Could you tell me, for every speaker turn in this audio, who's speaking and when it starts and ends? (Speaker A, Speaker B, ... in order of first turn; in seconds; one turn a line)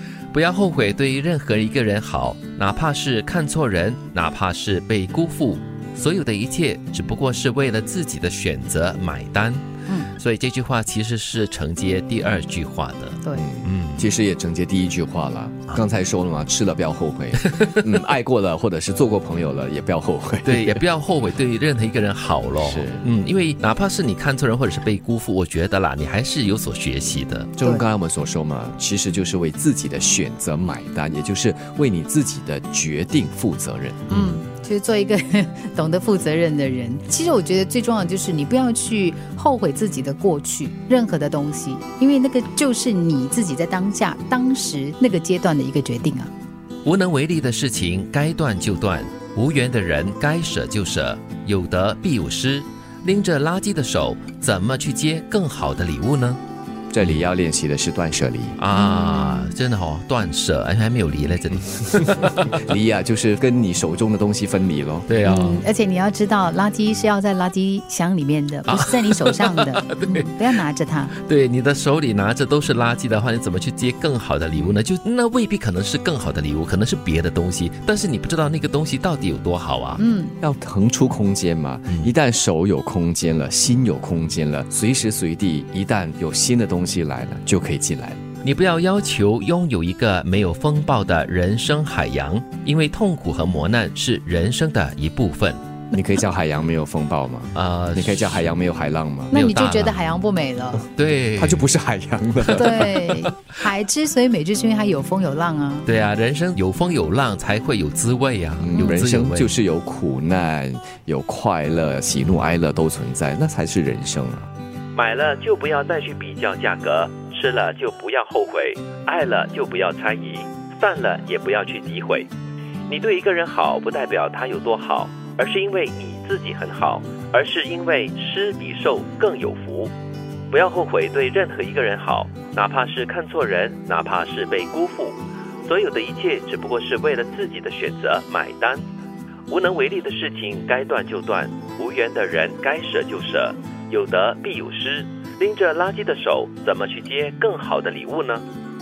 Speaker A: 0.3-9.6
Speaker A: 10.2-14.1
Speaker B: 13.3-20.8
Speaker A: 17.4-17.8
Speaker A: 20.4-27.5
Speaker B: 22.6-23.0
Speaker B: 27.6-34.3
Speaker C: 34.1-46.3
Speaker A: 46.9-56.4
Speaker B: 56.9-58.6
Speaker A: 58.6-62.6
Speaker C: 58.7-59.5
Speaker B: 62.1-65.1
Speaker A: 65.1-65.7
Speaker C: 65.2-71.1
Speaker A: 68.7-70.3
Speaker A: 71.2-80.0
Speaker C: 80.0-80.3
Speaker B: 80.4-88.2
Speaker A: 88.4-95.6
Speaker B: 95.9-99.3
Speaker A: 97.5-98.5
Speaker C: 99.3-100.8
Speaker A: 99.3-100.0
Speaker A: 101.0-101.7
Speaker B: 101.4-103.1
Speaker A: 102.4-103.3
Speaker C: 102.5-105.9
Speaker A: 105.9-109.5
Speaker B: 108.6-114.5
Speaker C: 108.7-109.0
Speaker A: 115.0-122.3
Speaker A: 122.9-129.9
Speaker A: 130.5-138.8
Speaker A: 139.5-148.4